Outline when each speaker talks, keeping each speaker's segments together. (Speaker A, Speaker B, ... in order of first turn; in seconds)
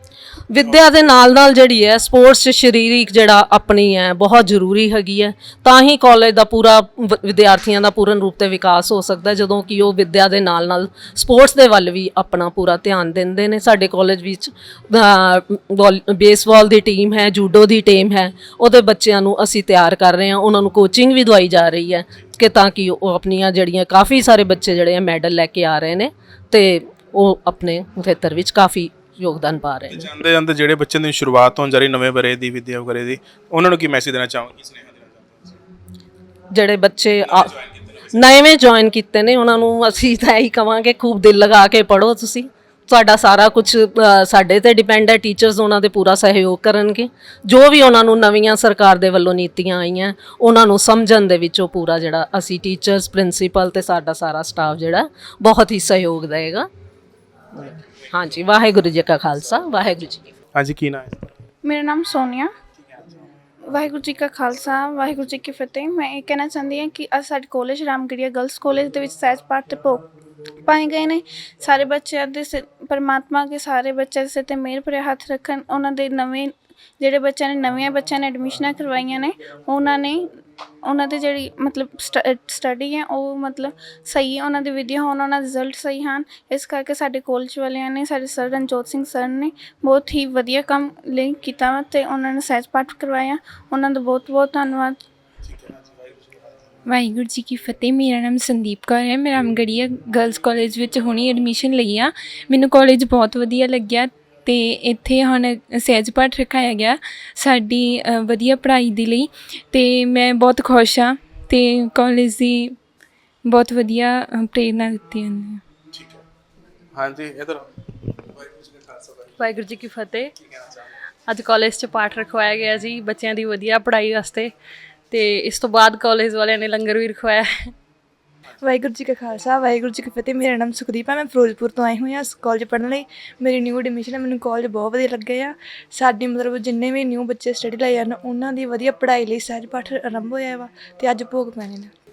Speaker A: 0.5-30.1, 36.5-37.5, 38.1-56.7, 57.5-60.3
Speaker B: 29.9-35.6, 37.3-38.3, 60.5-61.3, 62.8-63.2, 95.4-96.8, 115.9-116.2, 116.9-119.9, 120.4-120.8
Speaker C: 61.6-62.5, 63.7-70.0, 70.6-80.3, 80.8-95.0
Speaker D: 96.8-112.8, 113.4-115.6
Speaker E: 119.4-120.3, 121.3-124.5, 125.1-127.7
Speaker F: 128.6-141.9